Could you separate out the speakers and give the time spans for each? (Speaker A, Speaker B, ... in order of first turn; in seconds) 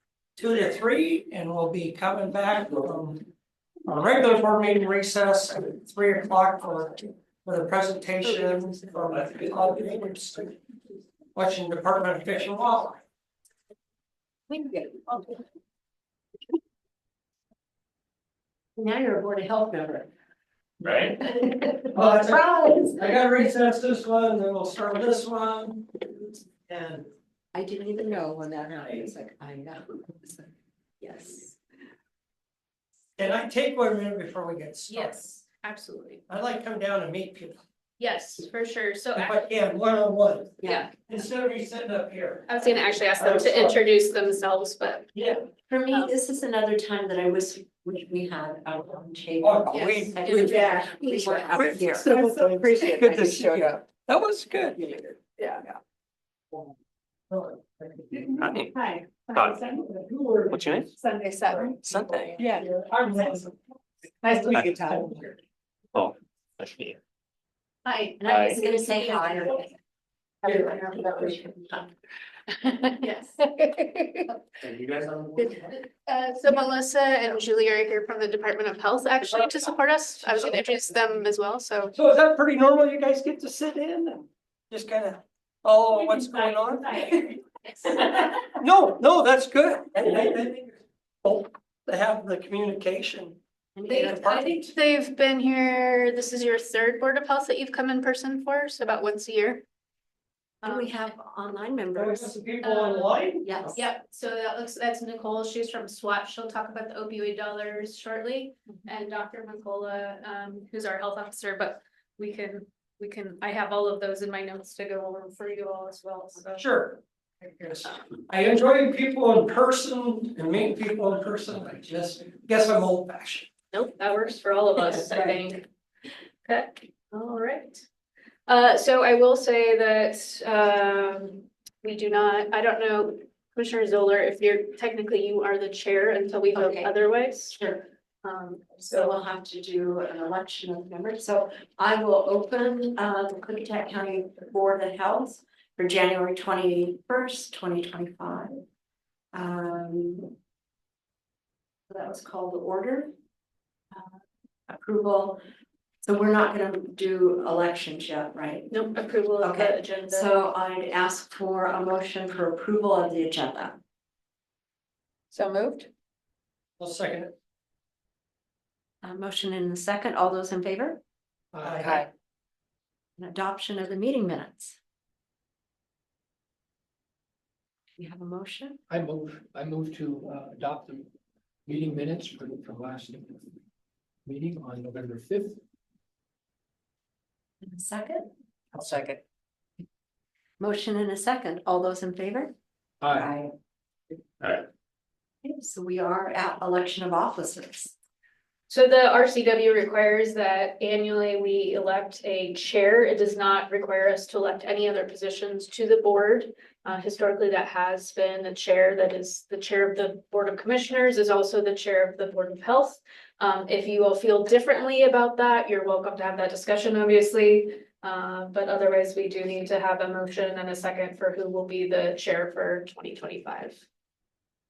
Speaker A: 0.4-3.2, 3.9-10.5, 11.3-13.0, 21.9-27.1, 33.2-35.2, 36.3-37.6, 39.1-42.6, 43.2-43.7, 45.1-45.4, 49.4-50.7, 51.4-55.2, 57.3-58.4, 59.7-60.8, 61.5-62.0, 62.5-63.5, 82.0-87.4, 88.5-93.4, 94.1-94.7, 102.0-103.6, 116.6-123.5, 166.8-167.3, 171.6-171.9
Speaker B: 8.4-8.9, 14.5-15.2, 18.8-20.1, 21.2-23.1, 27.5-31.6, 40.6-40.9, 45.6-52.1, 52.7-53.5, 68.2-69.7, 93.7-94.5, 100.6-102.3, 103.4-103.8, 136.5-137.0, 137.5-137.8, 138.9-148.6, 149.3-150.3, 151.9-153.1, 154.7-155.4, 156.0-158.8, 159.4-163.8, 169.0-171.0, 173.2-174.8, 178.0-178.8, 187.6-188.3, 190.6-192.5, 193.1-193.5, 195.4-197.9
Speaker C: 9.1-10.1, 20.8-21.2, 58.4-58.8, 59.3-59.7, 60.5-60.9, 61.8-62.4, 64.5-64.8, 65.9-67.0, 68.2-68.6, 74.6-75.5
Speaker D: 34.9-36.2, 38.0-39.4, 40.6-40.9, 42.5-45.1, 49.7-51.4, 58.8-59.6, 61.0-61.6, 64.2-64.8, 68.0-68.8, 70.5-71.3, 73.0-73.8, 75.8-82.0, 93.9-99.6, 100.6-101.0, 102.6-103.2, 103.7-116.6, 123.7-125.7, 126.4-127.8, 128.5-137.6, 138.2-139.1, 158.7-160.3, 198.7-223.8
Speaker E: 50.5-51.4, 52.0-53.8, 62.4-62.6, 64.2-65.1, 70.9-71.4, 165.3-165.9, 171.8-172.1, 188.8-189.2
Speaker F: 171.5-172.1, 178.9-181.1, 181.7-183.5, 184.2-185.6, 193.0-193.3